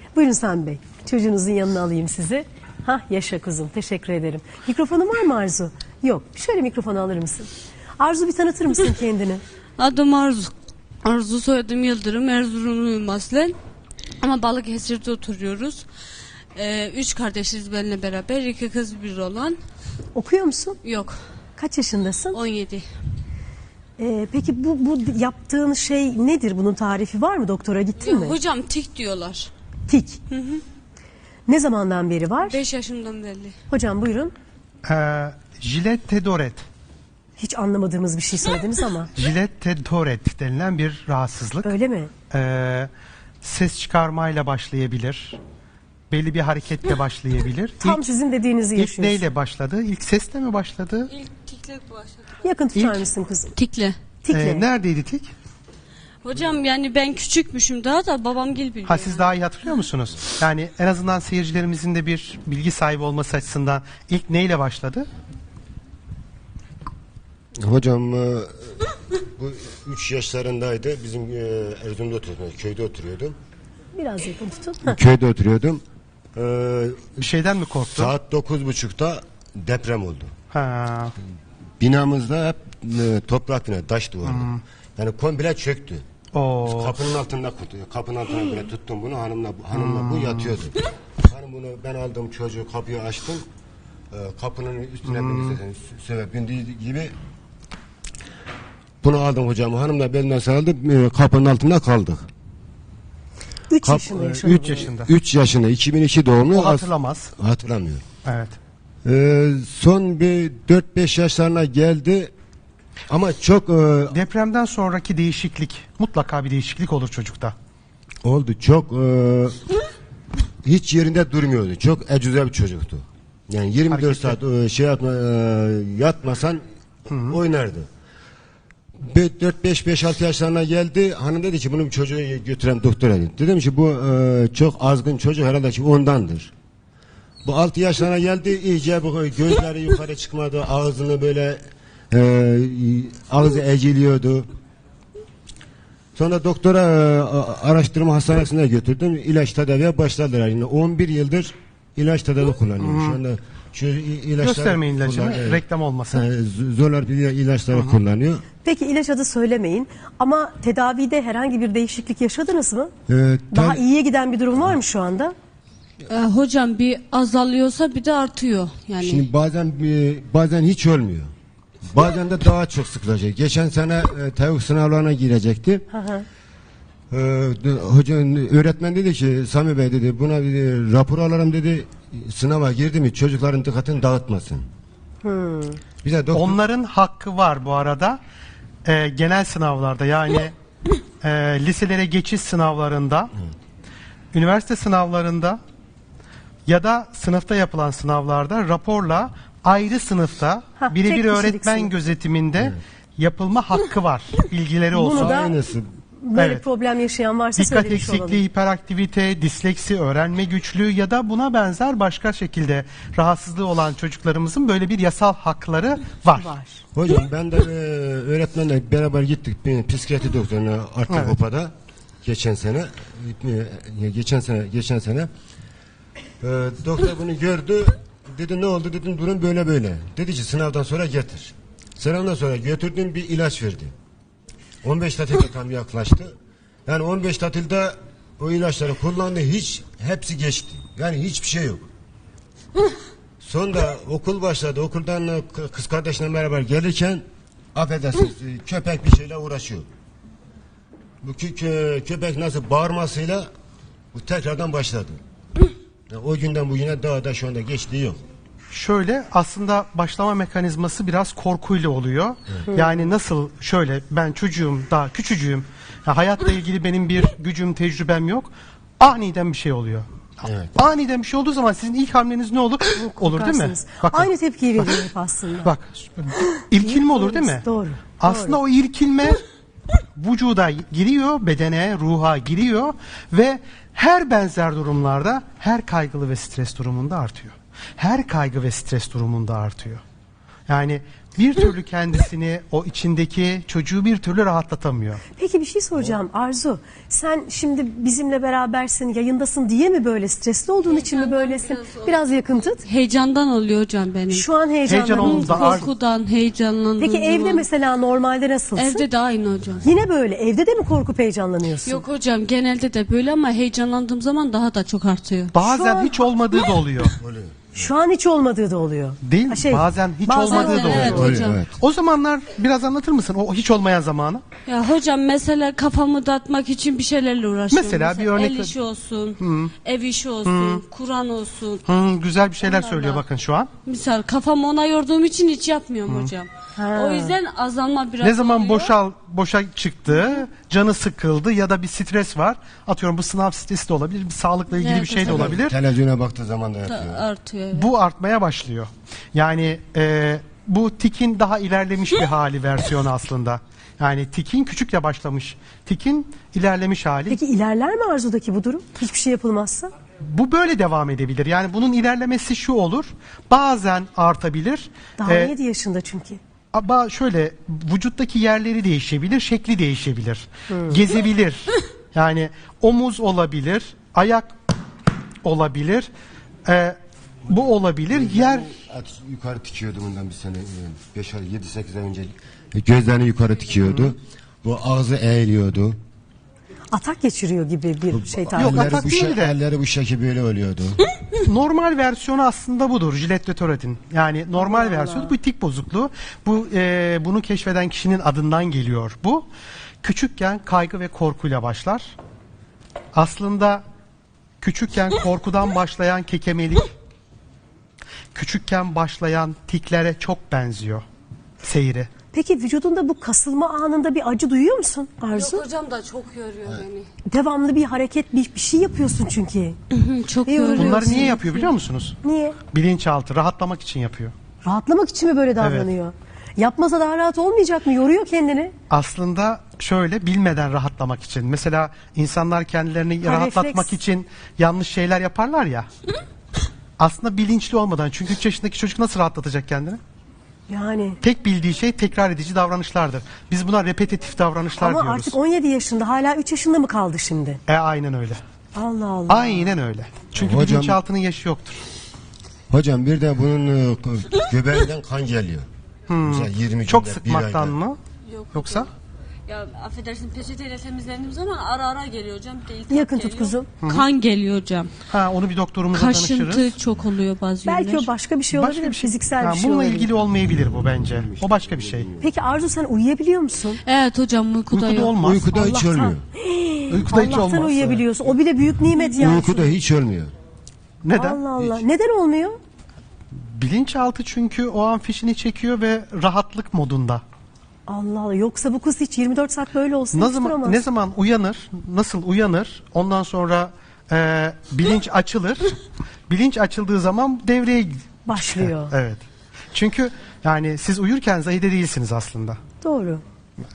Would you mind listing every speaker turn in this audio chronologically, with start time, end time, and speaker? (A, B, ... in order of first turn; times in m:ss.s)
0:00.1-0:09.4 A
0:09.8-0:13.6 B
0:14.2-0:15.9 B
0:16.6-0:19.6 B
0:20.1-0:20.8 A
0:20.8-0:21.2 B
0:21.6-0:22.4 A
0:22.3-0:22.9 B
0:24.0-0:28.4 A
0:28.0-0:29.5 B
0:29.9-0:30.2 A
0:30.3-0:30.6 B
0:31.5-0:32.6 A
0:32.5-0:33.6 B
0:33.7-0:34.3 A
0:34.8-0:36.6 C
0:37.4-0:39.1 A
0:39.2-0:41.7 C
0:41.6-0:42.1 A
0:42.3-0:42.9 C
0:43.4-0:45.4 C
0:46.1-0:48.0 C
0:47.8-0:49.3 A
0:48.8-0:51.1 C
0:51.1-0:52.4 B
0:52.4-0:53.5 A
0:52.8-0:53.0 C
0:53.6-0:54.0 B
0:54.2-0:54.6 A
0:54.3-0:55.3 C
0:56.2-0:59.3 B
0:58.9-1:05.1 C
1:07.6-1:08.8 D
1:09.4-1:13.4 D
1:14.0-1:15.0 A
1:14.8-1:15.8 D
1:16.4-1:17.3 D
1:17.2-1:18.1 C
1:17.9-1:20.3 D
1:20.5-1:21.1 C
1:21.8-1:26.0 D
1:24.3-1:24.6 C
1:26.3-1:27.0 C
1:26.6-1:33.5 D
1:29.7-1:30.5 C
1:34.1-1:37.2 D
1:35.1-1:35.6 C
1:39.0-1:42.3 D
1:43.7-1:44.9 A
1:43.8-1:48.0 D
1:44.4-1:45.1 C
1:46.5-1:47.3 C
1:48.2-1:48.6 C
1:49.0-1:52.3 D
1:53.1-1:54.2 D
1:54.1-1:57.6 C
1:58.2-1:59.7 D
2:00.6-2:06.6 D
2:03.9-2:04.4 C
2:07.1-2:07.4 C
2:07.2-2:07.9 D
2:09.0-2:16.5 D
2:17.4-2:24.5 D
2:26.2-2:38.4 D
2:32.8-2:33.2 C
2:34.4-2:36.2 C
2:38.6-2:42.9 A
2:43.1-2:43.8 D
2:43.5-2:45.4 A
2:46.1-2:49.3 B
2:49.0-2:51.3 D
2:51.9-2:55.8 D
2:55.9-2:56.2 A
2:57.1-3:04.7 D
3:05.2-3:05.8 A
3:06.0-3:06.6 D
3:06.3-3:08.2 C
3:08.8-3:10.5 C
3:11.2-3:13.3 C
3:14.3-3:15.6 C
3:16.7-3:25.4 C
3:20.8-3:22.0 A
3:24.9-3:25.6 A
3:25.1-3:25.9 D
3:26.2-3:28.4 A
3:26.4-3:26.6 C
3:27.6-3:36.5 C
3:36.4-3:36.8 A
3:37.0-3:45.3 D
3:41.1-3:41.4 C
3:46.4-3:53.9 D
3:54.8-3:56.4 D
3:56.9-4:01.9 D
4:03.4-4:09.9 D
4:11.2-4:13.5 D
4:14.1-4:15.2 D
4:16.1-4:18.2 D
4:18.7-4:35.0 C
4:30.4-4:30.7 D
4:33.0-4:35.7 A
4:35.6-4:37.6 C
4:36.4-4:38.6 A
4:38.2-4:39.4 C
4:40.2-4:50.0 C
4:50.7-4:55.2 C
4:55.4-5:02.8 A
5:00.8-5:07.7 B
5:04.3-5:05.9 A
5:04.9-5:05.9 C
5:07.0-5:09.1 A
5:08.8-5:09.9 B
5:09.5-5:09.9 D
5:09.8-5:12.0 A
5:11.9-5:15.5 B
5:15.5-5:17.2 C
5:15.6-5:16.6 A
5:17.2-5:17.9 D
5:17.7-5:21.4 A
5:19.2-5:24.4 C
5:20.4-5:21.6 B
5:21.0-5:21.8 D
5:24.7-5:31.9 B
5:27.7-5:28.8 C
5:29.4-5:29.7 C
5:30.4-5:30.8 C
5:31.9-5:33.7 C
5:32.6-5:33.2 B
5:33.9-5:39.0 B
5:36.8-5:37.4 A
5:38.2-5:45.8 C
5:44.7-5:45.6 B
5:45.2-5:47.2 D
5:46.9-5:47.9 B
5:47.7-5:57.4 C
5:57.3-5:59.9 A
6:00.2-6:05.5 C
6:05.2-6:06.4 A
6:06.7-6:14.5 C
6:10.7-6:11.0 A
6:15.4-6:16.1 C
6:16.7-6:17.0 C
6:17.5-6:18.7 C
6:18.1-6:26.0 D
6:26.9-6:29.0 A
6:28.1-6:31.0 D
6:28.6-6:29.6 C
6:31.4-6:39.5 C
6:34.6-6:35.4 A
6:40.0-6:42.2 C
6:43.1-6:43.8 C
6:44.6-6:46.9 C
6:48.4-6:51.0 C
6:51.6-6:52.1 C
6:52.3-6:55.7 A
6:55.3-6:57.1 B
6:57.3-6:59.8 A
6:59.9-7:01.6 B
7:00.5-7:01.4 A
7:00.8-7:04.3 C
7:02.2-7:02.6 A
7:04.6-7:08.8 A
7:05.6-7:05.9 C
7:08.9-7:15.9 C
7:13.2-7:14.0 A
7:17.0-7:20.0 C
7:20.7-7:21.2 A
7:21.2-7:25.4 C
7:24.8-7:27.6 A
7:27.7-7:28.4 C
7:28.7-7:29.8 A
7:29.3-7:31.8 C
7:30.3-7:31.0 D
7:32.7-7:35.7 D
7:36.1-7:38.0 C
7:36.2-7:37.8 D
7:38.3-7:38.9 B
7:38.5-7:38.9 C
7:39.5-7:44.9 B
7:42.9-7:43.7 A
7:45.1-7:46.7 C
7:45.9-7:48.1 B
7:47.6-7:50.1 A
7:48.5-7:52.1 C
7:51.0-7:52.3 D
7:52.2-7:53.8 A
7:53.8-7:55.2 B
7:54.7-7:55.5 C
7:55.2-7:56.2 D
7:55.5-7:59.7 A
7:56.9-7:58.1 C
7:59.2-8:00.3 D
8:01.0-8:01.4 C
8:01.1-8:02.6 A
8:03.3-8:07.2 C
8:07.9-8:10.8 A
8:10.1-8:15.8 C
8:16.3-8:19.2 C
8:18.3-8:18.9 A
8:19.7-8:22.6 C
8:22.8-8:23.2 A